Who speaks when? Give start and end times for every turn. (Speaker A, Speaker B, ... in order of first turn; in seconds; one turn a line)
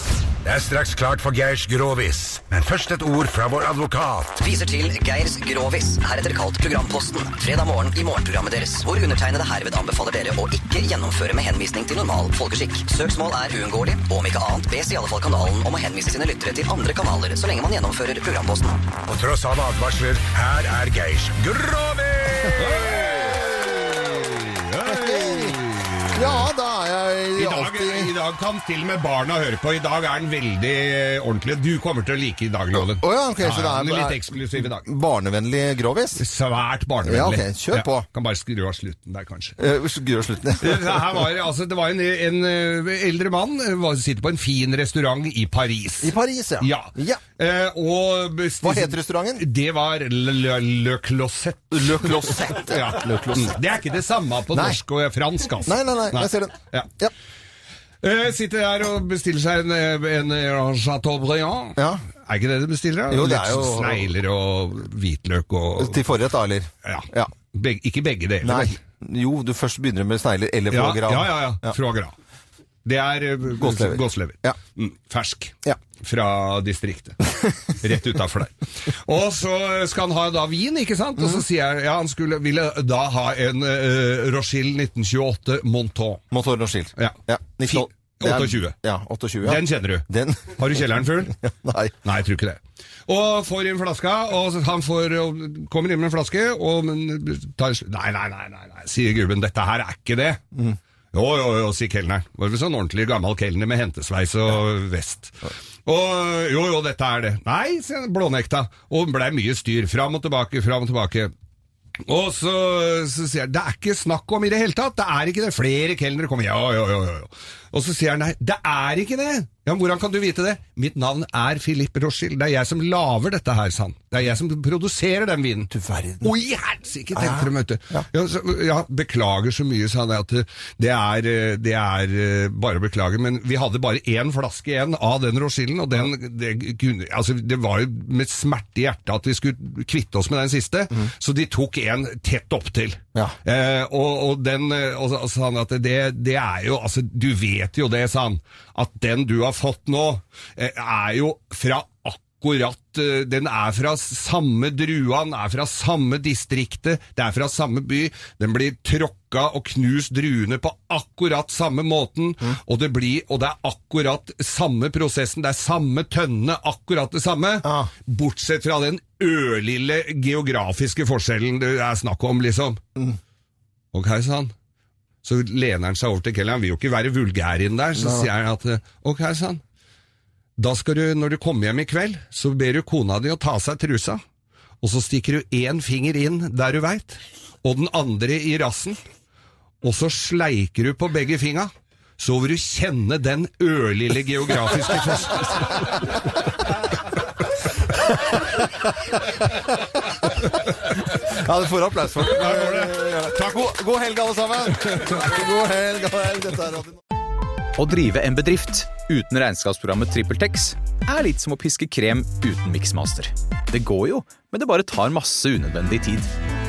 Speaker A: 0.4-4.4
Speaker B: 4.4-18.9
Speaker A: 19.0-23.3
Speaker C: 22.5-26.5
Speaker D: 24.9-25.6
Speaker D: 26.1-28.1
Speaker C: 27.4-34.9
Speaker D: 32.7-36.2
Speaker C: 36.2-39.6
Speaker D: 37.0-38.0
Speaker D: 39.6-41.1
Speaker C: 40.6-56.9
Speaker D: 46.0-47.2
Speaker D: 48.6-49.5
Speaker D: 51.7-53.5
Speaker D: 54.5-54.8
Speaker D: 55.6-57.1
Speaker C: 58.0-66.0
Speaker D: 61.8-62.0
Speaker D: 63.1-64.1
Speaker D: 65.8-67.3
Speaker C: 66.8-68.8
Speaker D: 68.4-71.7
Speaker C: 70.7-72.1
Speaker C: 72.8-86.2
Speaker D: 73.6-74.5
Speaker D: 86.3-91.9
Speaker C: 87.0-88.8
Speaker C: 89.4-91.3
Speaker C: 92.0-100.4
Speaker C: 101.1-111.3
Speaker C: 112.0-125.7
Speaker D: 125.7-126.3
Speaker C: 126.2-172.8
Speaker D: 127.1-127.5
Speaker D: 167.6-167.9
Speaker C: 173.9-174.5
Speaker C: 175.2-179.6
Speaker D: 177.9-178.3
Speaker C: 180.6-184.2
Speaker C: 184.8-189.0
Speaker C: 189.8-196.1
Speaker D: 198.1-207.0
Speaker C: 202.2-203.2
Speaker E: 207.8-216.3